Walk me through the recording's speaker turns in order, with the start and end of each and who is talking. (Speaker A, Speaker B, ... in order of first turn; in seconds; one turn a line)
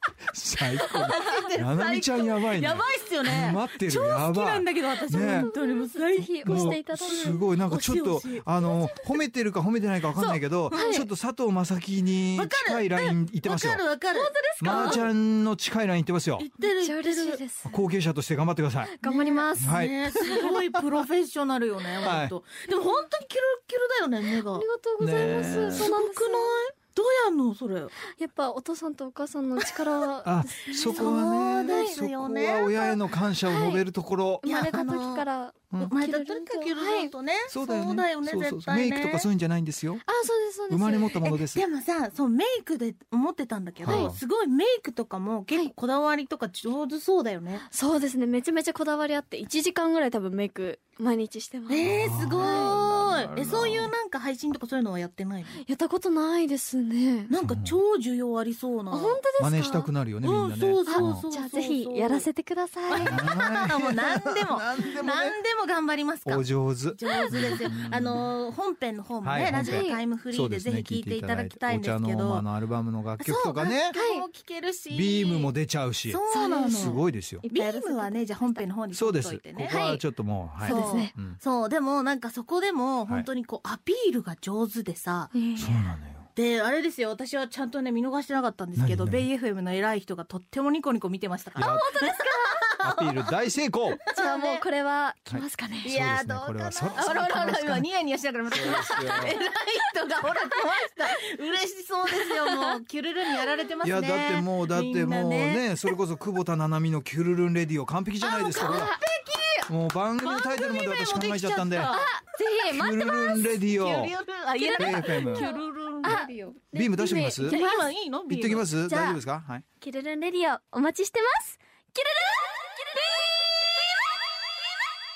Speaker A: 0.3-5.5
Speaker B: 0.9-8.5
Speaker C: 5.2-7.5
Speaker A: 6.4-13.8
Speaker C: 8.6-9.1
Speaker B: 10.2-11.0
Speaker C: 10.2-11.1
Speaker B: 12.3-15.1
Speaker C: 14.1-15.1
Speaker A: 14.6-16.5
Speaker B: 16.4-17.4
Speaker C: 16.6-17.8
Speaker A: 17.6-18.9
Speaker C: 18.8-20.6
Speaker B: 19.0-24.7
Speaker A: 19.6-20.8
Speaker A: 22.0-22.3
Speaker C: 24.5-26.5
Speaker A: 25.0-25.9
Speaker B: 25.7-28.0
Speaker C: 28.0-32.0
Speaker A: 30.2-34.5
Speaker B: 30.8-33.0
Speaker C: 33.5-33.9
Speaker C: 34.4-37.1
Speaker B: 34.4-39.3
Speaker A: 37.5-40.0
Speaker C: 40.1-41.3
Speaker A: 40.7-41.6
Speaker B: 41.2-47.7
Speaker A: 43.8-44.2
Speaker C: 43.9-44.1
Speaker C: 47.7-52.8
Speaker B: 51.7-55.6
Speaker A: 51.8-53.9
Speaker C: 55.6-57.3
Speaker B: 57.3-59.2
Speaker A: 57.4-57.8
Speaker C: 58.9-59.9
Speaker A: 59.4-61.2
Speaker B: 60.2-62.3
Speaker C: 60.9-63.2
Speaker B: 62.9-72.5
Speaker A: 62.9-65.4
Speaker A: 66.2-68.3
Speaker C: 67.2-67.7
Speaker A: 69.2-74.0
Speaker C: 69.4-70.0
Speaker B: 73.2-75.5
Speaker C: 73.9-74.3
Speaker A: 74.9-77.5
Speaker B: 76.1-79.8
Speaker C: 76.3-78.7
Speaker A: 78.9-81.4
Speaker C: 79.7-80.0
Speaker C: 80.6-81.1
Speaker B: 80.6-85.4
Speaker C: 85.3-86.0
Speaker A: 85.6-86.3
Speaker B: 86.3-93.1
Speaker A: 88.8-89.3
Speaker A: 91.5-91.9
Speaker C: 91.6-92.7
Speaker A: 92.8-94.0
Speaker B: 94.1-94.7
Speaker C: 94.1-96.0
Speaker A: 95.3-97.9
Speaker B: 95.8-105.9
Speaker C: 97.0-97.5
Speaker A: 98.5-99.4
Speaker C: 102.1-102.8
Speaker A: 103.8-109.0
Speaker B: 108.2-112.2
Speaker C: 108.7-109.0
Speaker A: 109.7-111.9
Speaker C: 111.8-113.6
Speaker A: 112.7-114.1
Speaker B: 113.3-116.5
Speaker C: 114.6-117.8
Speaker A: 114.8-115.5
Speaker A: 116.7-117.6
Speaker B: 117.4-118.7
Speaker A: 118.3-119.6
Speaker C: 118.9-119.2
Speaker C: 119.8-123.4